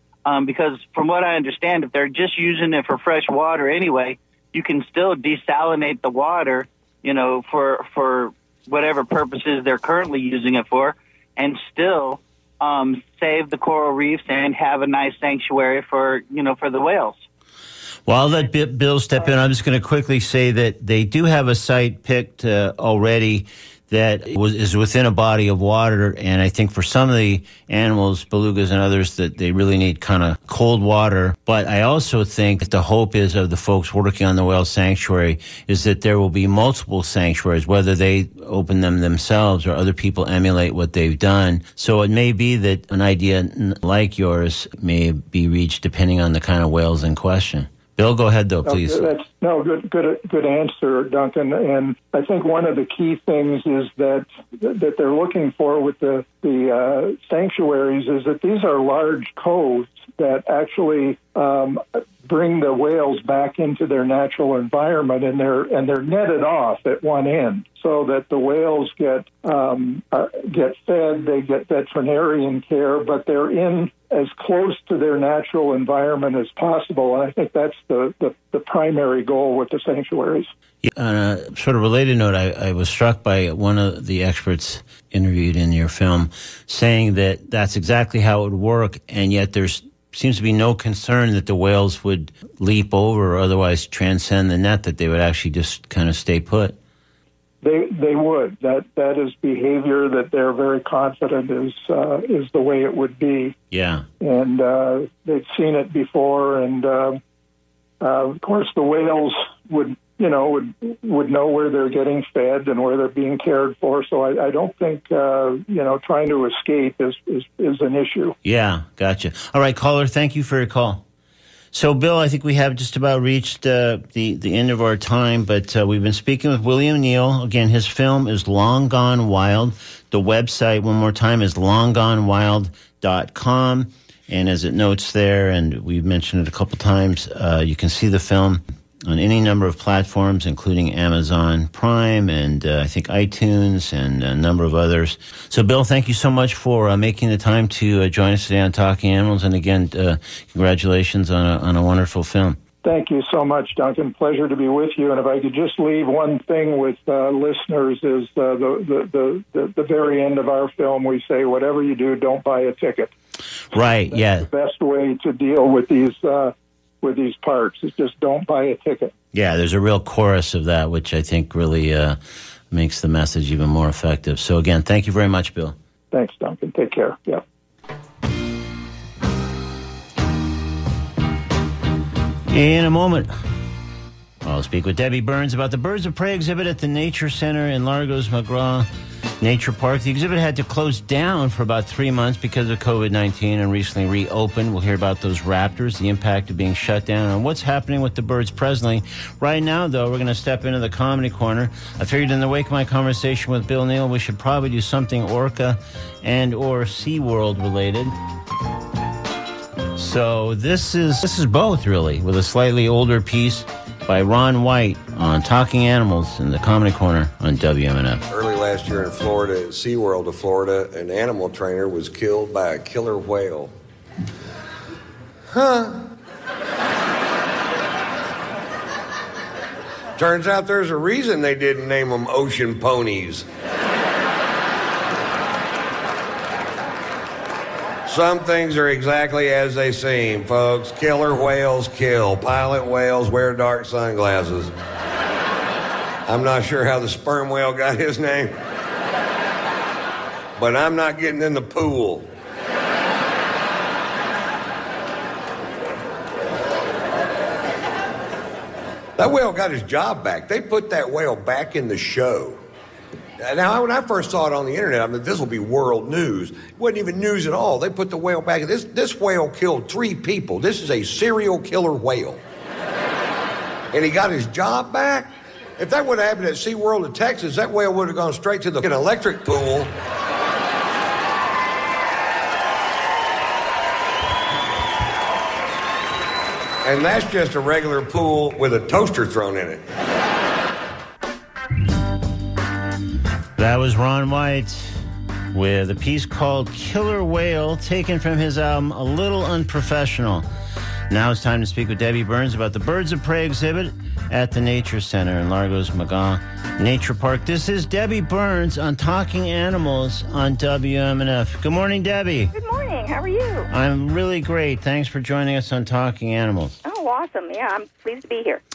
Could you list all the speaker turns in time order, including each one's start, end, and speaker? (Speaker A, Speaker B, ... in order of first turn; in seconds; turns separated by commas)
Speaker A: 0.2-17.2, Speaker B: 18.1-49.1, Speaker C: 48.6-80.5, Speaker B: 80.8-96.8, Speaker C: 97.6-103.5, Speaker B: 103.7-104.0, Speaker C: 104.2-107.2, Speaker C: 108.0-118.3, Speaker B: 118.4-121.0, Speaker B: 121.7-152.6, Speaker C: 152.8-163.1, Speaker B: 163.7-164.5, Speaker C: 164.1-169.1, Speaker B: 169.3-172.2, Speaker B: 172.7-175.8, Speaker C: 176.1-177.4, Speaker B: 182.5-183.3, Speaker B: 184.4-188.9, Speaker B: 189.4-208.1, Speaker B: 209.9-218.2, Speaker D: 218.3-223.7, Speaker D: 225.5-226.0, Speaker D: 230.2-233.5, Speaker D: 238.1-244.7, Speaker D: 246.3-248.5, Speaker D: 250.6-252.3, Speaker D: 259.2-262.6, Speaker D: 263.4-272.4, Speaker D: 273.9-279.9, Speaker D: 286.8-289.8, Speaker B: 293.6-295.0, Speaker B: 295.5-300.4, Speaker B: 301.1-312.5, Speaker E: 312.5-313.7, Speaker B: 313.7-316.8, Speaker E: 316.8-318.6